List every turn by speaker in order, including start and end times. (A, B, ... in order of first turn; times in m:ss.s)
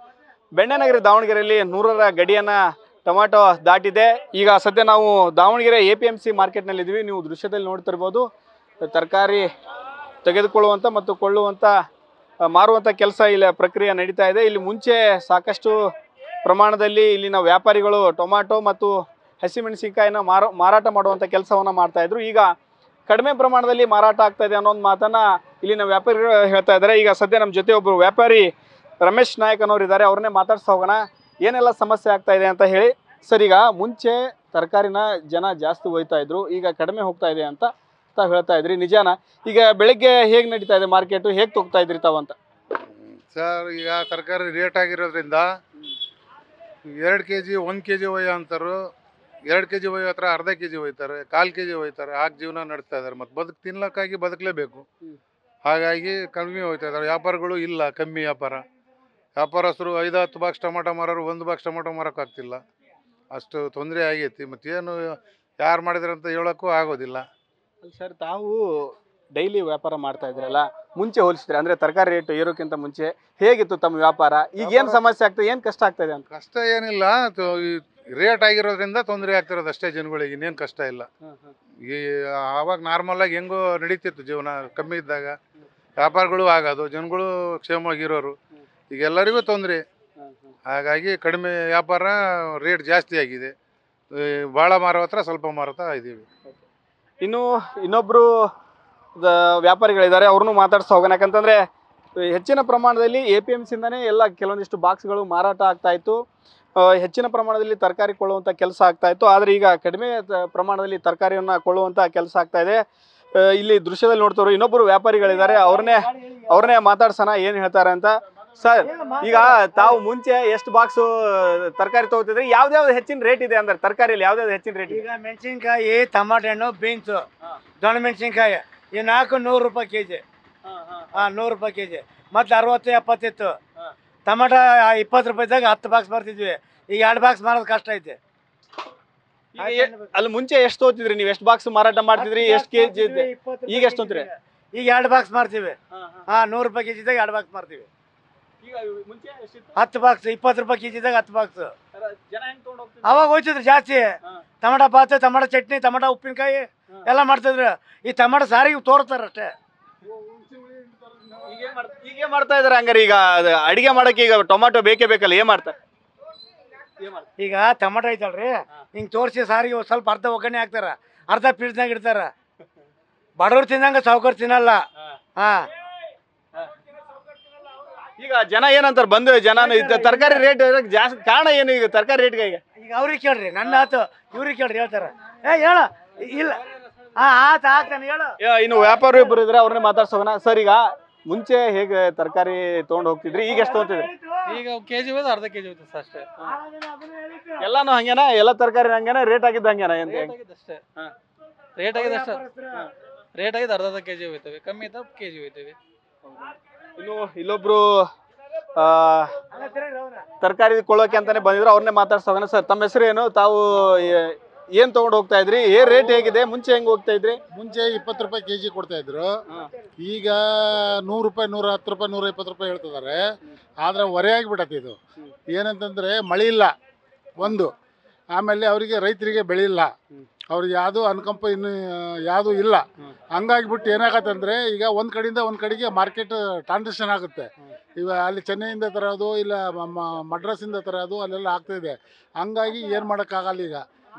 0:00.5-0:08.2 A
0:08.8-0:09.4 A
0:10.2-0:11.7 A
0:12.5-0:15.8 A
0:16.4-0:22.5 A
0:23.1-0:28.5 A
0:29.0-0:42.3 A
0:42.9-0:45.4 B
0:46.8-0:48.8 B
0:49.5-0:54.8 B
0:55.6-0:58.6 B
0:59.4-1:02.6 B
1:03.3-1:07.2 B
1:07.8-1:16.2 A
1:16.3-1:21.1 B
1:21.2-1:21.5 A
1:21.9-1:25.4 B
1:26.0-1:28.3 B
1:28.9-1:29.8 B
1:30.2-1:30.5 A
1:30.7-1:33.5 B
1:34.1-1:36.3 B
1:37.2-1:38.5 A
1:39.2-1:41.6 A
1:42.2-1:46.2 A
1:46.8-1:52.8 A
1:53.3-2:05.0 A
1:55.2-1:56.7 C
1:58.8-2:00.0 C
2:04.9-2:07.2 C
2:07.8-2:10.2 C
2:10.7-2:11.2 A
2:11.2-2:13.5 C
2:14.2-2:18.2 C
2:19.5-2:24.3 A
2:19.6-2:20.1 C
2:22.1-2:25.8 C
2:25.9-2:26.3 A
2:26.3-2:27.9 C
2:28.6-2:29.8 A
2:29.8-2:31.7 C
2:31.9-2:33.2 A
2:33.0-2:34.1 C
2:34.6-2:39.5 C
2:40.1-2:41.2 D
2:41.4-2:45.7 A
2:47.0-2:47.3 A
2:47.4-2:52.3 C
2:53.4-2:54.8 C
2:55.4-2:55.7 C
2:58.2-3:02.6 A
2:59.5-3:00.4 C
3:02.8-3:06.6 C
3:07.2-3:08.3 C
3:08.4-3:14.1 A
3:13.5-3:14.5 C
3:14.4-3:16.3 E
3:16.6-3:17.6 C
3:17.6-3:20.3 A
3:20.0-3:20.8 E
3:21.8-3:22.4 E
3:21.9-3:22.8 C
3:23.4-3:25.8 E
3:27.0-3:27.8 A
3:28.8-3:29.3 A
3:29.5-3:30.2 C
3:30.4-3:37.4 A
3:35.9-3:36.2 D
3:37.5-3:39.3 D
3:40.0-3:43.2 D
3:43.8-3:45.0 D
3:45.5-3:46.7 D
3:47.4-3:47.7 D
3:48.3-3:49.9 D
3:50.5-4:03.8 D